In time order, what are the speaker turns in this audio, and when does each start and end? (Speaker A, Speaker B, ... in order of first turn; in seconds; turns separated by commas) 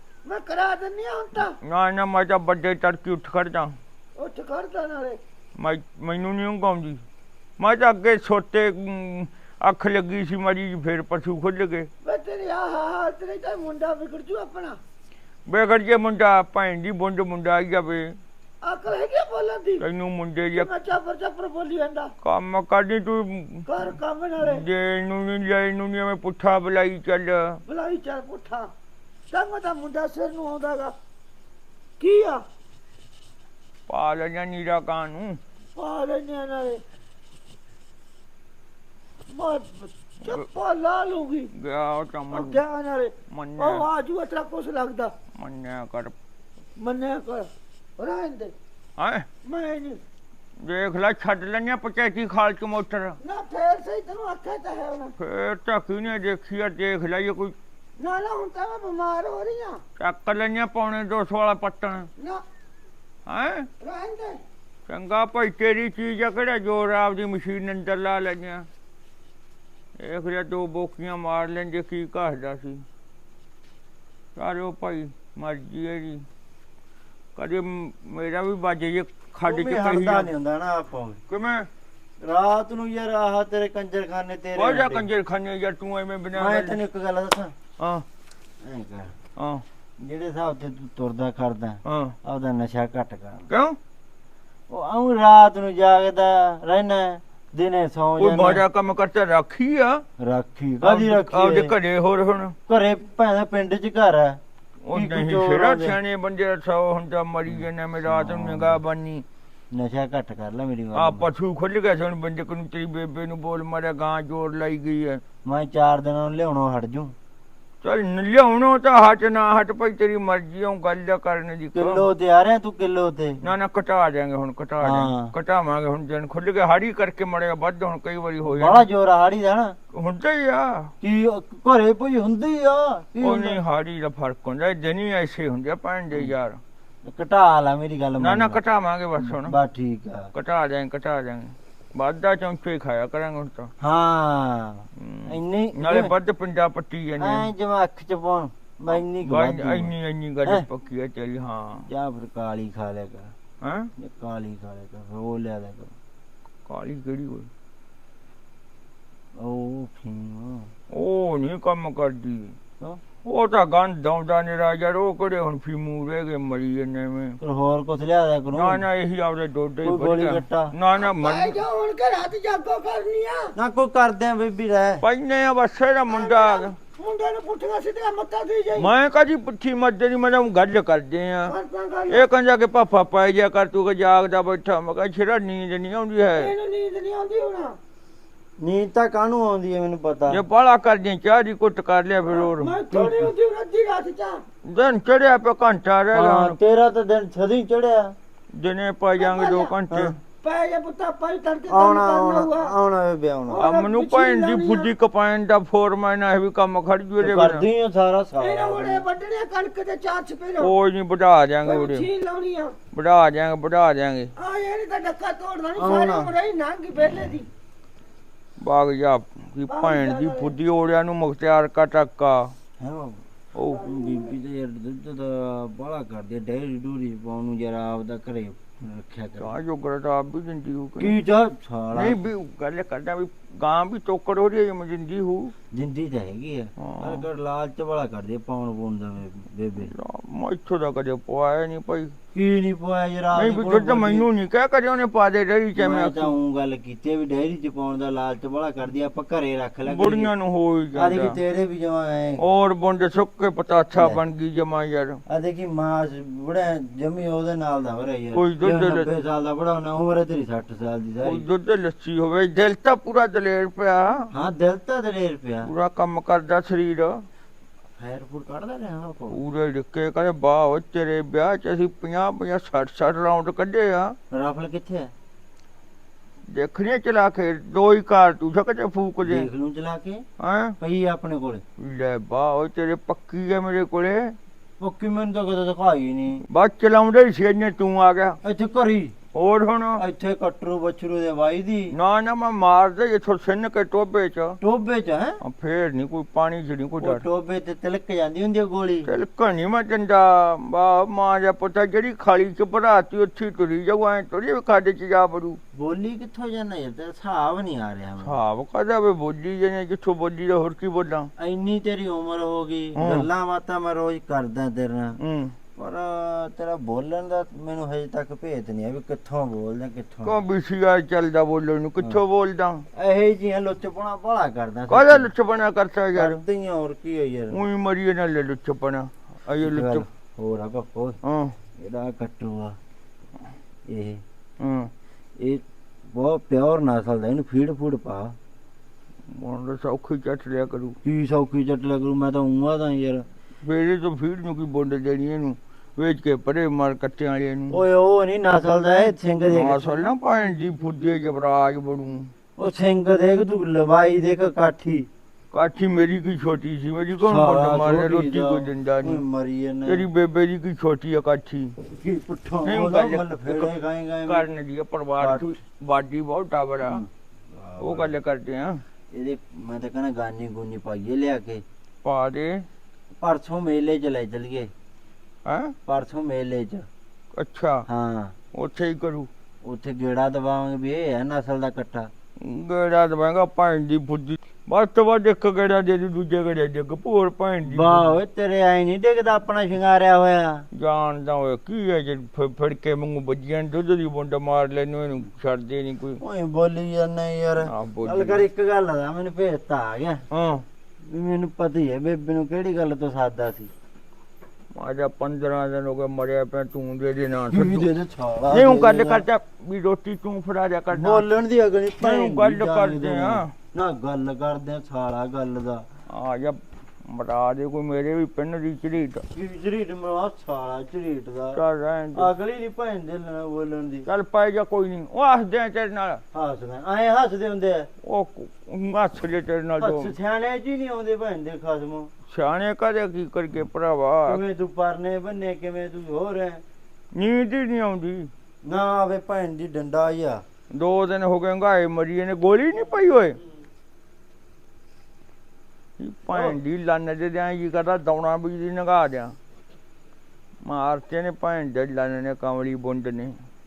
Speaker A: 0.2-1.6, Speaker B: 1.4-3.8, Speaker A: 4.2-5.2, Speaker B: 5.6-7.0, Speaker B: 7.6-11.9, Speaker A: 12.0-14.8, Speaker B: 15.5-18.2, Speaker A: 18.6-19.9, Speaker B: 19.8-20.7, Speaker A: 20.6-22.1, Speaker B: 22.2-27.6, Speaker A: 23.7-24.6, Speaker A: 27.6-28.7, Speaker A: 29.3-30.9, Speaker A: 32.0-32.4, Speaker B: 33.9-35.4, Speaker A: 35.8-36.8, Speaker A: 39.3-41.5, Speaker B: 41.5-42.6, Speaker A: 42.3-45.1, Speaker B: 43.3-43.9, Speaker B: 45.3-46.1, Speaker A: 46.8-48.5, Speaker B: 49.0-49.3, Speaker A: 49.4-50.0, Speaker B: 50.6-53.2, Speaker A: 53.2-55.1, Speaker B: 55.2-57.5, Speaker A: 58.0-59.8, Speaker B: 60.0-62.1, Speaker A: 62.2-62.4, Speaker B: 63.3-63.7, Speaker A: 63.8-64.4, Speaker B: 64.9-68.7, Speaker B: 70.0-72.8, Speaker B: 74.4-76.2, Speaker B: 77.4-80.3, Speaker C: 79.5-81.2, Speaker B: 81.3-81.7, Speaker C: 82.2-85.1, Speaker B: 84.5-86.8, Speaker C: 86.3-87.5, Speaker B: 87.8-88.0, Speaker C: 88.6-89.1, Speaker B: 89.4-89.6, Speaker C: 90.0-93.5, Speaker B: 91.8-92.2, Speaker B: 93.5-93.8, Speaker C: 94.7-98.6, Speaker B: 98.2-100.0, Speaker C: 100.2-101.7, Speaker B: 100.8-102.6, Speaker C: 102.7-104.4, Speaker B: 104.8-109.2, Speaker C: 104.9-106.0, Speaker C: 107.5-108.8, Speaker C: 109.7-111.3, Speaker B: 111.0-115.2, Speaker C: 115.4-117.1, Speaker B: 117.8-122.1, Speaker C: 121.7-123.4, Speaker B: 123.4-128.8, Speaker C: 124.8-125.3, Speaker C: 128.4-129.8, Speaker B: 129.9-130.9, Speaker C: 131.0-133.6, Speaker B: 133.2-136.6, Speaker C: 137.0-138.6, Speaker B: 138.2-139.6, Speaker C: 139.2-140.3, Speaker B: 140.3-143.7, Speaker C: 143.8-146.1, Speaker B: 145.0-147.5, Speaker C: 147.2-149.9, Speaker B: 149.2-151.9, Speaker C: 151.9-153.3, Speaker B: 153.6-153.9, Speaker C: 154.0-155.9, Speaker B: 156.7-157.5, Speaker C: 159.4-160.7, Speaker B: 160.9-162.6, Speaker B: 163.2-167.4, Speaker C: 167.4-168.8, Speaker B: 168.5-171.6, Speaker C: 169.8-170.7, Speaker A: 171.0-173.5, Speaker C: 173.6-175.0, Speaker B: 175.0-176.8, Speaker A: 176.1-178.9, Speaker B: 178.8-181.6, Speaker A: 181.5-182.2, Speaker B: 182.1-186.5, Speaker A: 186.3-187.8, Speaker C: 188.6-190.4, Speaker B: 190.3-192.8, Speaker A: 192.3-194.4, Speaker C: 192.9-193.3, Speaker B: 194.6-196.6, Speaker C: 196.1-198.1, Speaker B: 198.5-200.2, Speaker A: 199.2-199.7, Speaker A: 200.4-202.7, Speaker C: 201.7-203.7, Speaker A: 203.5-204.9, Speaker B: 203.6-207.6, Speaker C: 207.2-209.1, Speaker A: 208.4-210.7, Speaker B: 210.6-212.1, Speaker A: 211.6-212.8, Speaker B: 212.9-214.3, Speaker A: 214.4-217.5, Speaker C: 215.8-216.3, Speaker B: 218.6-222.5, Speaker A: 219.7-220.5, Speaker C: 222.8-223.2, Speaker B: 223.6-223.8, Speaker A: 223.6-224.3, Speaker C: 223.8-229.5, Speaker B: 229.4-231.2, Speaker C: 231.0-232.2, Speaker B: 231.9-235.5, Speaker C: 235.7-239.9, Speaker B: 236.8-237.3, Speaker B: 239.8-242.1, Speaker C: 242.3-244.3, Speaker B: 243.3-246.3, Speaker C: 245.8-250.3, Speaker B: 249.9-251.4, Speaker C: 250.9-252.4, Speaker B: 252.4-255.2, Speaker C: 253.9-254.2, Speaker C: 255.3-261.5, Speaker B: 258.4-259.1, Speaker B: 261.2-264.3, Speaker C: 264.3-265.7, Speaker B: 265.6-267.2, Speaker C: 268.0-269.4, Speaker B: 269.3-274.1, Speaker C: 274.3-275.1, Speaker B: 276.5-279.5, Speaker C: 279.2-280.2, Speaker B: 280.4-280.8, Speaker C: 280.8-281.6, Speaker B: 281.8-284.4, Speaker C: 284.8-286.4, Speaker B: 286.5-288.4, Speaker C: 288.4-289.1, Speaker B: 289.3-290.0, Speaker C: 290.0-291.9, Speaker B: 291.9-294.6, Speaker C: 294.6-295.4, Speaker B: 295.4-297.2, Speaker C: 297.0-299.1, Speaker B: 299.1-305.6, Speaker C: 305.7-308.4, Speaker B: 308.2-311.3, Speaker C: 311.4-315.2, Speaker B: 313.0-313.3, Speaker B: 315.2-315.6, Speaker C: 315.8-320.4, Speaker B: 320.2-322.9, Speaker C: 322.9-325.3, Speaker B: 324.9-326.4, Speaker C: 326.1-327.6, Speaker B: 327.5-330.1, Speaker C: 329.6-331.2, Speaker B: 331.2-331.6, Speaker C: 331.8-332.8, Speaker C: 333.9-334.2, Speaker B: 334.6-334.9, Speaker C: 335.4-338.4, Speaker B: 339.3-341.0, Speaker C: 341.0-343.3, Speaker B: 343.6-347.8, Speaker C: 347.7-350.1, Speaker B: 349.5-352.3, Speaker C: 352.6-355.1, Speaker B: 355.5-359.2, Speaker C: 357.2-360.1, Speaker B: 359.9-361.8, Speaker C: 361.9-364.5, Speaker B: 362.6-363.7, Speaker B: 364.3-367.1, Speaker C: 365.2-365.6, Speaker C: 366.8-368.1, Speaker B: 367.8-368.8, Speaker C: 369.1-371.6, Speaker B: 372.0-372.6, Speaker C: 373.2-374.7, Speaker B: 375.5-375.8, Speaker C: 375.9-376.9, Speaker B: 377.4-377.9, Speaker C: 377.9-378.4, Speaker B: 378.5-379.3, Speaker C: 379.6-382.1, Speaker B: 382.4-388.1, Speaker C: 387.6-390.6, Speaker B: 390.7-396.2, Speaker C: 396.2-400.2, Speaker B: 397.6-398.4, Speaker B: 400.3-400.6, Speaker C: 401.0-403.7, Speaker B: 404.8-407.9, Speaker C: 407.5-409.3, Speaker B: 408.5-411.3, Speaker C: 410.9-415.9, Speaker B: 412.0-413.5, Speaker B: 416.1-419.3, Speaker C: 419.3-421.6, Speaker B: 421.5-422.3, Speaker C: 422.1-424.1, Speaker B: 424.1-426.2, Speaker C: 426.3-427.9, Speaker B: 428.0-430.1, Speaker C: 429.8-432.1, Speaker B: 432.3-434.4, Speaker C: 434.3-436.6, Speaker B: 437.1-438.3, Speaker C: 438.6-440.4, Speaker B: 440.7-443.4, Speaker B: 446.0-449.4, Speaker C: 446.3-446.6, Speaker B: 450.6-453.4